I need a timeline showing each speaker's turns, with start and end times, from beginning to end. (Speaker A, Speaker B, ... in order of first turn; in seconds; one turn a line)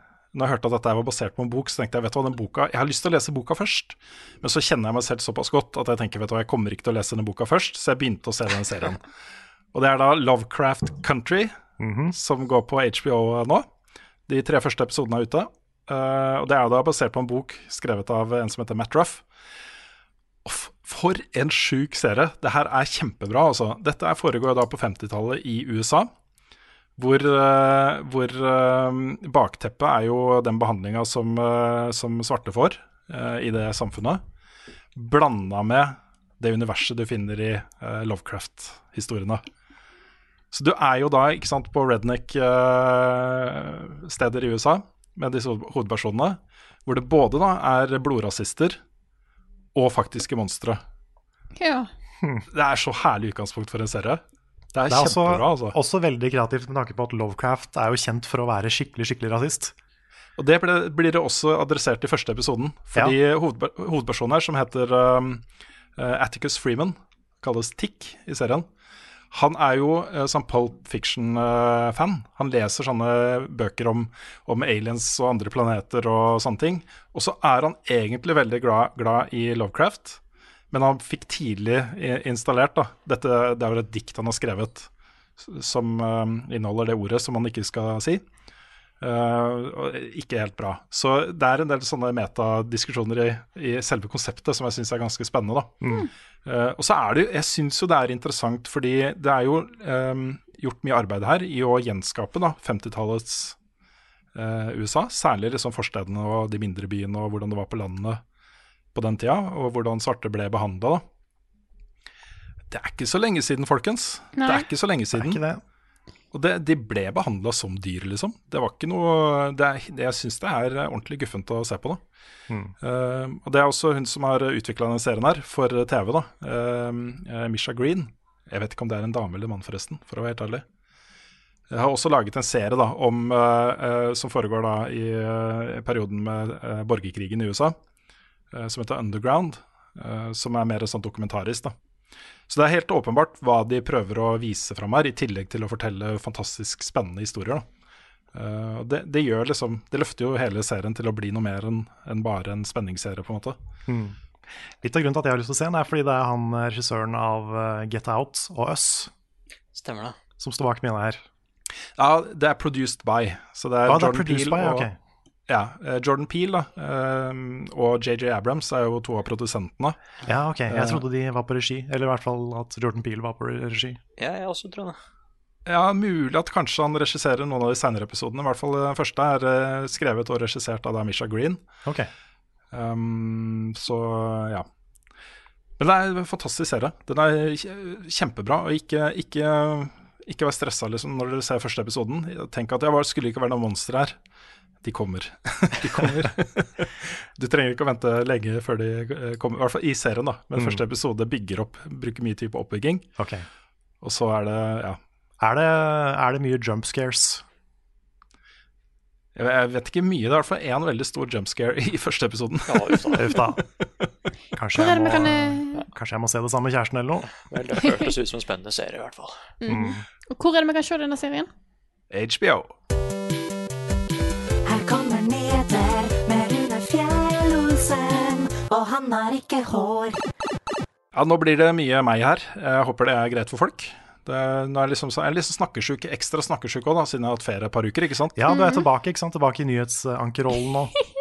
Speaker A: 0.3-9.0
Speaker A: 9.7-11.6
Speaker B: 11.8-12.1
Speaker A: 12.1-13.7
Speaker A: 14.3-19.2
Speaker A: 20.4-26.1
Speaker A: 27.0-34.2
Speaker A: 35.0-39.4
Speaker A: 40.5-48.8
Speaker A: 49.8-50.8
Speaker C: 51.6-51.9
Speaker B: 52.2-52.5
Speaker A: 52.5-54.2
Speaker A: 54.7-55.8
Speaker B: 54.9-59.8
Speaker A: 60.4-65.4
Speaker A: 66.0-68.7
Speaker A: 69.3-80.2
Speaker A: 80.7-88.2
Speaker A: 89.0-95.8
Speaker B: 95.8-96.1
Speaker A: 96.5-103.6
Speaker A: 104.3-108.2
Speaker A: 108.9-111.0
Speaker A: 112.7-115.4
Speaker C: 114.4-114.7
Speaker B: 115.1-115.6
Speaker A: 116.3-122.0
Speaker B: 122.5-122.7
Speaker A: 122.8-130.6
Speaker A: 131.7-137.8
Speaker A: 138.5-141.7
Speaker A: 142.5-147.6
Speaker A: 148.3-153.6
Speaker B: 153.9-154.2
Speaker B: 154.8-159.1
Speaker D: 159.7-160.2
Speaker B: 160.4-161.2
Speaker A: 162.0-164.9
Speaker B: 163.8-165.0
Speaker A: 165.5-170.0
Speaker B: 170.2-174.0
Speaker A: 170.7-171.0
Speaker D: 174.2-175.0
Speaker A: 175.7-181.6
Speaker B: 181.8-182.1
Speaker A: 182.7-184.7
Speaker A: 185.8-194.2
Speaker A: 194.8-203.1
Speaker B: 200.6-200.8
Speaker B: 203.2-203.5
Speaker A: 204.0-205.0
Speaker B: 205.4-207.4
Speaker A: 209.4-214.1
Speaker D: 212.7-213.3
Speaker B: 213.1-213.6
Speaker B: 214.5-217.3
Speaker C: 214.8-215.8
Speaker D: 217.5-219.4
Speaker C: 219.6-221.5
Speaker B: 219.7-220.0
Speaker A: 222.1-222.7
Speaker E: 224.7-230.2
Speaker A: 231.1-238.4
Speaker B: 238.3-240.9
Speaker C: 238.5-238.8